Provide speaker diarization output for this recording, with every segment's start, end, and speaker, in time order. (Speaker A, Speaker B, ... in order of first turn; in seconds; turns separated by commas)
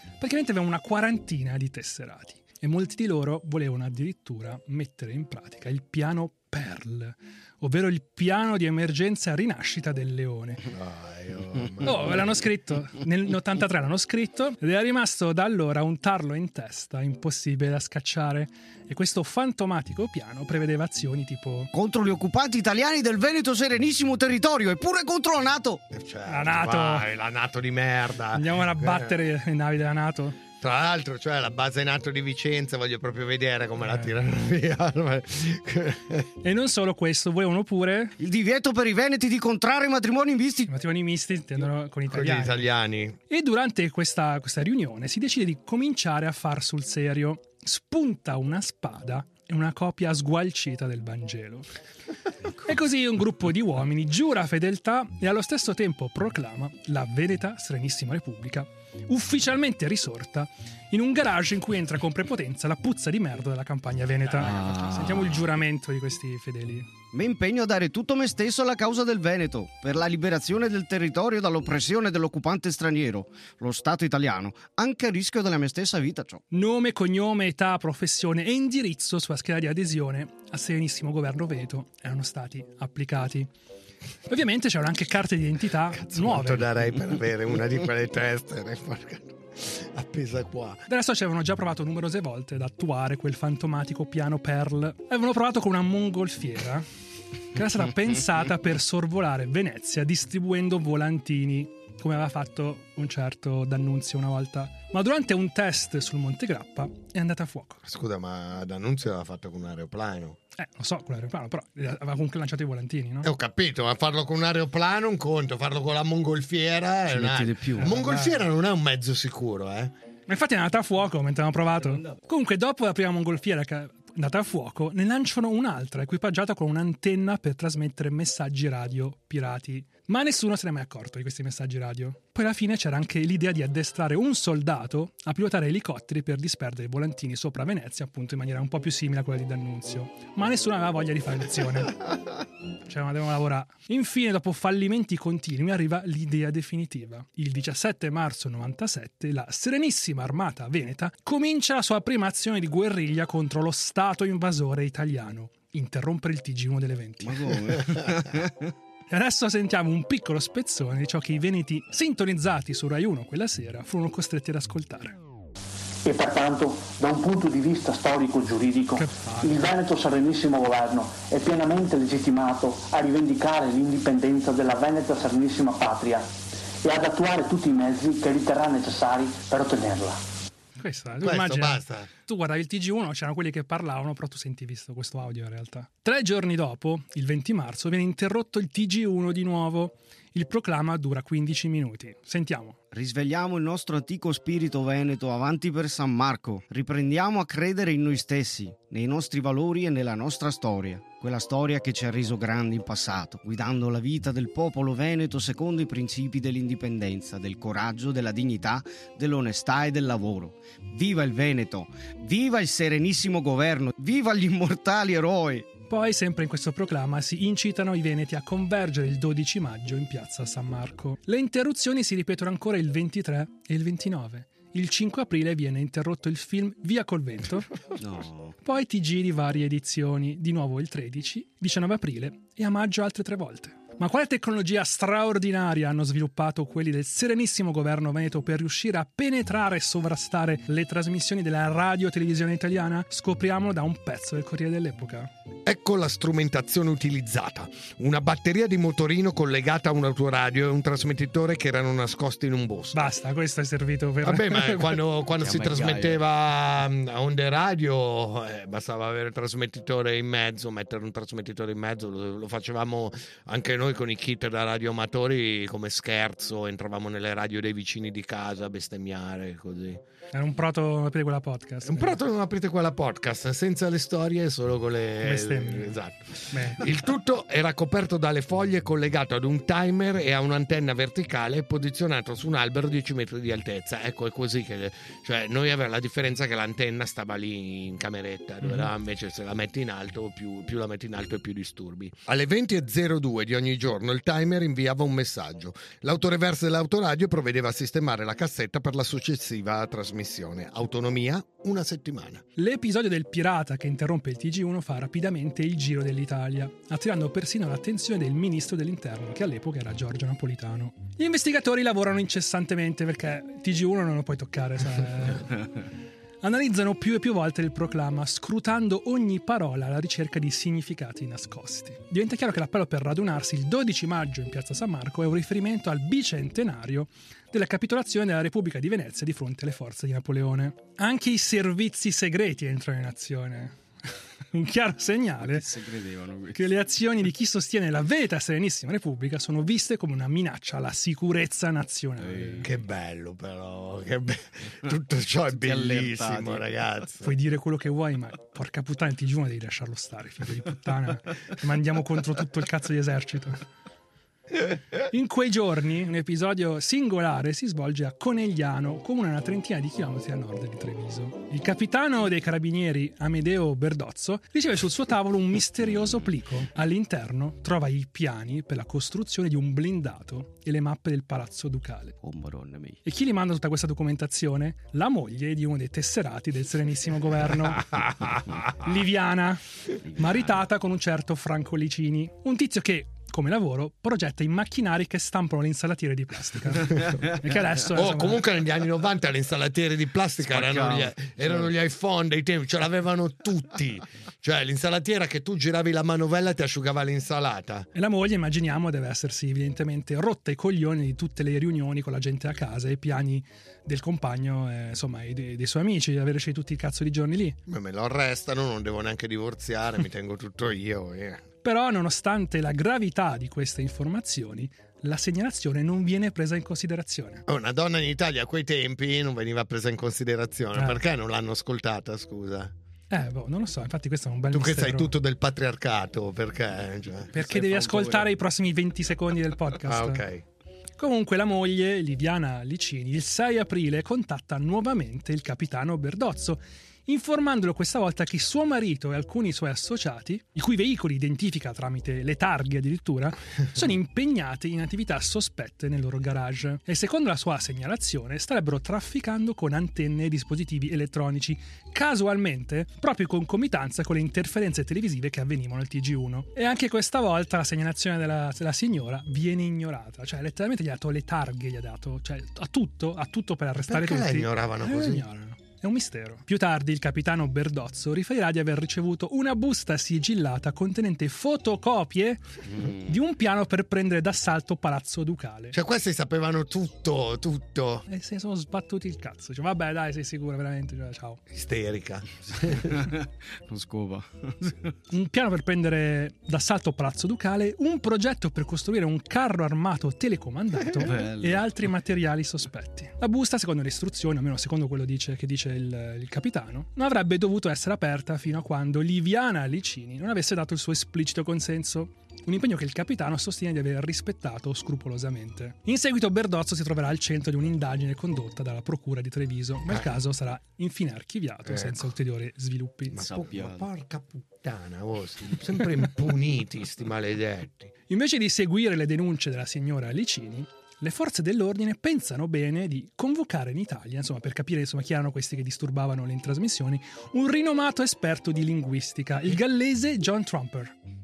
Speaker A: 0.2-10.6, Speaker B: 10.7-12.3, Speaker A: 11.8-21.7, Speaker C: 21.7-25.8, Speaker B: 25.9-29.2, Speaker A: 26.3-27.1, Speaker A: 28.4-30.4, Speaker B: 30.6-36.3, Speaker A: 33.8-34.1, Speaker A: 36.4-38.2, Speaker C: 38.2-40.7, Speaker A: 40.7-42.6, Speaker B: 42.1-43.2, Speaker A: 43.3-51.7, Speaker A: 52.6-66.9, Speaker C: 64.2-65.5, Speaker C: 67.1-76.4, Speaker A: 76.5-83.5, Speaker A: 84.3-86.8, Speaker B: 85.9-90.8, Speaker A: 90.9-96.9, Speaker A: 97.5-107.8, Speaker B: 107.8-110.4, Speaker A: 110.6-113.3, Speaker B: 113.2-119.9, Speaker C: 117.1-118.0, Speaker A: 117.8-118.5, Speaker A: 120.3-141.9, Speaker C: 121.8-122.2, Speaker A: 142.9-157.5, Speaker C: 157.2-158.7, Speaker A: 159.1-165.2, Speaker D: 166.0-176.3, Speaker A: 169.0-169.7, Speaker D: 176.8-180.2, Speaker A: 180.8-192.8, Speaker B: 181.2-182.1, Speaker C: 192.9-215.7, Speaker A: 215.9-227.7, Speaker C: 228.0-228.6, Speaker A: 228.6-245.3, Speaker B: 245.7-253.1, Speaker A: 252.9-255.0, Speaker B: 254.2-270.0, Speaker C: 255.4-256.2, Speaker A: 270.3-272.2, Speaker B: 271.8-302.4, Speaker A: 275.2-276.0, Speaker A: 276.5-276.9, Speaker A: 288.6-288.9, Speaker A: 302.6-315.6, Speaker A: 316.4-333.8, Speaker A: 334.5-335.7, Speaker C: 335.4-336.6, Speaker A: 336.5-342.7, Speaker C: 342.2-342.7, Speaker B: 342.6-347.3, Speaker C: 345.5-346.7, Speaker A: 347.2-353.6, Speaker A: 355.1-372.2, Speaker C: 372.2-373.0, Speaker A: 373.1-377.9, Speaker B: 377.9-378.4, Speaker A: 378.8-379.6, Speaker C: 380.1-380.6, Speaker A: 380.1-388.4, Speaker B: 387.9-397.9, Speaker C: 390.4-391.7, Speaker A: 397.9-407.6, Speaker B: 407.7-411.4, Speaker A: 411.6-417.4, Speaker B: 417.5-422.7, Speaker A: 420.8-421.0, Speaker A: 423.1-425.1, Speaker B: 424.5-428.2, Speaker A: 427.3-430.2, Speaker B: 429.9-430.4, Speaker A: 431.0-472.4, Speaker B: 463.9-465.3, Speaker A: 473.0-475.8, Speaker B: 475.7-478.1, Speaker A: 478.1-481.4, Speaker B: 481.5-482.9, Speaker C: 482.7-485.0, Speaker A: 485.1-513.2, Speaker C: 491.0-491.7, Speaker B: 511.7-512.1, Speaker B: 513.1-517.9, Speaker C: 513.1-513.9, Speaker A: 518.1-530.9